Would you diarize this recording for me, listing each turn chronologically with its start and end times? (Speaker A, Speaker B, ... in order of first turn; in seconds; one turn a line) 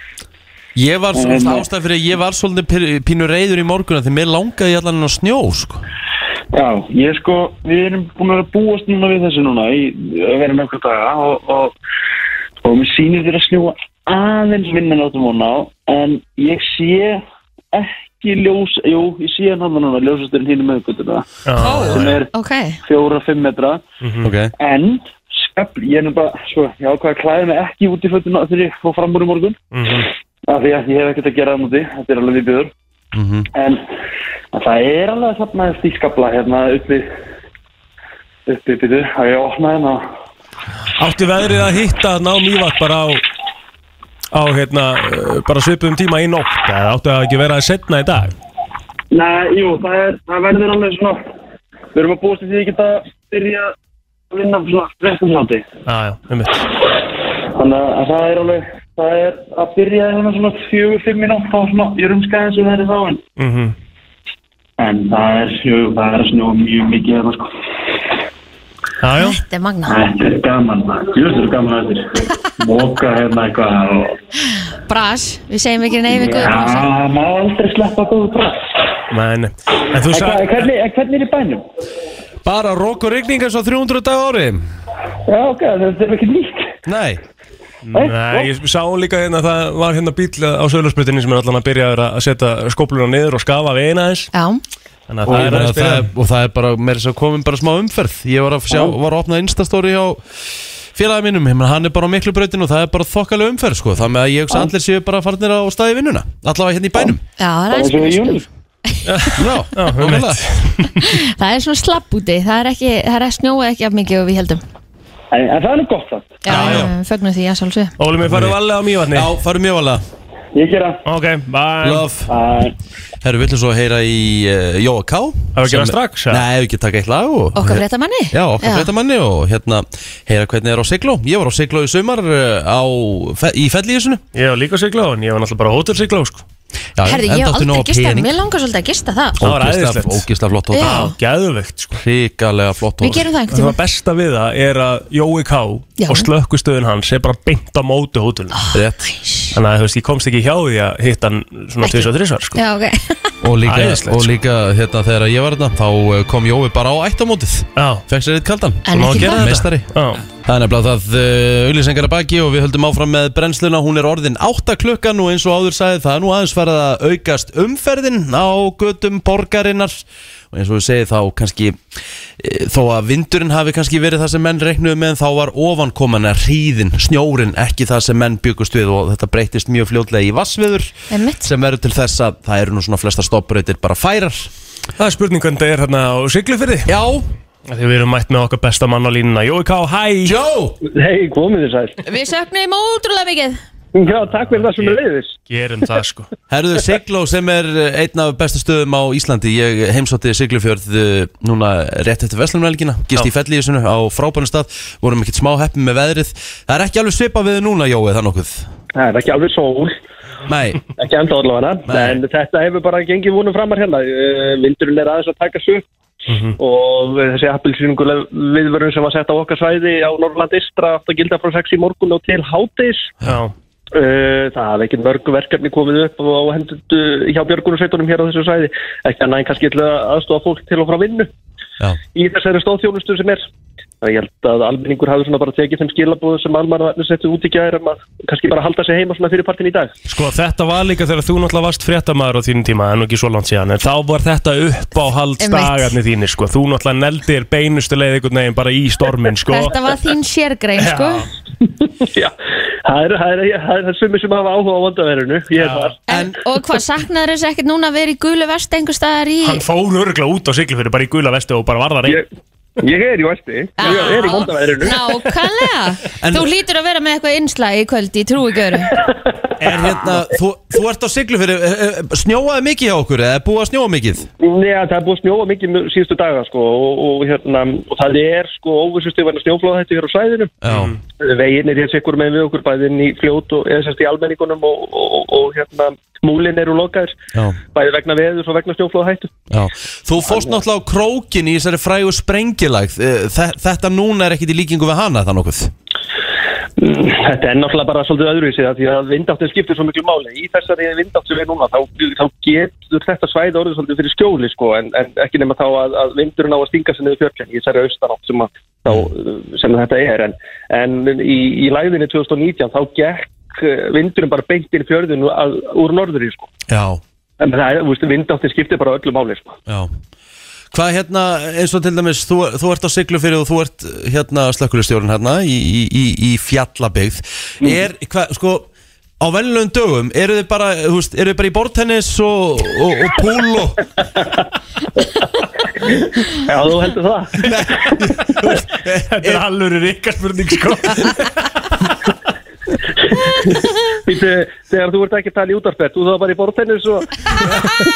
Speaker A: 0.7-5.8
Speaker B: 1.1-1.6
Speaker B: 6.5-11.8
Speaker B: 12.6-17.2
Speaker B: 17.7-22.3
Speaker C: 21.4-22.2
Speaker D: 21.6-22.8
Speaker B: 22.8-23.8
Speaker C: 24.0-24.3
Speaker A: 24.2-24.5
Speaker B: 24.6-29.6
Speaker C: 29.7-30.1
Speaker B: 30.5-32.7
Speaker A: 33.1-33.5
Speaker B: 33.5-33.8
Speaker B: 34.5-37.1
Speaker B: 38.5-40.0
Speaker C: 41.0-43.2
Speaker C: 44.3-48.3
Speaker B: 49.1-51.2
Speaker B: 51.9-53.7
Speaker B: 54.3-55.6
Speaker C: 55.9-56.7
Speaker B: 57.5-63.2
Speaker C: 63.4-63.7
Speaker B: 64.8-67.5
Speaker C: 69.0-69.4
Speaker D: 69.2-70.0
Speaker B: 69.8-74.2
Speaker D: 74.8-76.9
Speaker B: 76.1-78.9
Speaker C: 79.1-80.7
Speaker B: 80.1-81.6
Speaker A: 82.4-84.6
Speaker B: 85.2-86.7
Speaker A: 86.8-87.2
Speaker C: 87.9-94.3
Speaker B: 87.9-88.5
Speaker D: 94.3-94.6
Speaker C: 95.1-96.1
Speaker A: 95.3-100.2
Speaker A: 100.9-107.2
Speaker D: 107.4-109.3
Speaker B: 107.7-108.5
Speaker C: 109.0-111.1
Speaker A: 109.3-110.4
Speaker D: 110.9-114.6
Speaker B: 115.3-116.5
Speaker D: 116.4-117.9
Speaker A: 116.5-116.9
Speaker C: 116.5-116.9
Speaker C: 118.0-119.3
Speaker A: 118.2-118.6
Speaker A: 119.1-120.0
Speaker B: 120.5-121.0
Speaker C: 121.0-122.1
Speaker A: 121.8-122.3
Speaker B: 122.3-122.7
Speaker A: 123.2-134.2
Speaker C: 125.5-126.4
Speaker D: 127.5-128.9
Speaker C: 134.3-136.4
Speaker A: 136.9-138.3
Speaker D: 137.0-139.4
Speaker A: 139.4-141.1
Speaker C: 139.4-140.2
Speaker D: 140.7-141.1
Speaker C: 140.8-142.0
Speaker A: 141.9-143.3
Speaker D: 143.0-143.8
Speaker C: 143.5-148.6
Speaker D: 146.0-146.3
Speaker D: 148.5-149.6
Speaker A: 148.7-149.1
Speaker C: 149.5-152.6
Speaker D: 151.8-153.3
Speaker A: 153.4-171.8
Speaker C: 153.7-154.3
Speaker C: 157.8-158.0
Speaker D: 158.8-159.5
Speaker C: 158.9-160.2
Speaker A: 172.4-180.9
Speaker D: 181.1-181.5
Speaker A: 181.4-184.5
Speaker C: 185.0-186.9
Speaker A: 186.8-187.3
Speaker C: 187.7-190.3
Speaker A: 190.2-190.8
Speaker E: 190.8-192.0
Speaker D: 192.0-193.6
Speaker E: 193.9-195.3
Speaker C: 194.2-196.3
Speaker A: 196.5-208.7
Speaker E: 208.9-209.9
Speaker A: 210.4-210.8
Speaker E: 211.0-215.8
Speaker A: 211.9-212.2
Speaker C: 216.3-216.5
Speaker E: 216.6-223.1
Speaker C: 223.2-223.5
Speaker E: 223.9-231.3
Speaker E: 232.1-233.4
Speaker E: 234.0-239.9
Speaker C: 240.1-249.8
Speaker D: 245.4-245.9
Speaker D: 249.4-251.3
Speaker C: 250.8-251.3
Speaker E: 252.0-252.3
Speaker E: 252.8-255.9
Speaker C: 255.6-255.9
Speaker D: 256.1-259.6
Speaker A: 256.1-256.4
Speaker C: 259.4-262.2
Speaker E: 262.8-265.0
Speaker D: 263.8-269.0
Speaker C: 263.8-264.4
Speaker A: 266.2-266.5
Speaker A: 269.6-274.3
Speaker E: 274.4-280.5
Speaker A: 280.6-280.9
Speaker C: 280.7-281.0
Speaker E: 281.2-287.1
Speaker E: 287.7-289.3
Speaker A: 289.5-295.7
Speaker E: 290.3-290.5
Speaker E: 296.8-316.5
Speaker A: 316.7-317.0
Speaker E: 317.4-319.6
Speaker A: 319.7-319.9
Speaker A: 320.7-328.7
Speaker A: 329.2-333.8
Speaker E: 336.3-337.5
Speaker A: 337.4-339.4
Speaker C: 339.1-341.4
Speaker E: 343.3-347.8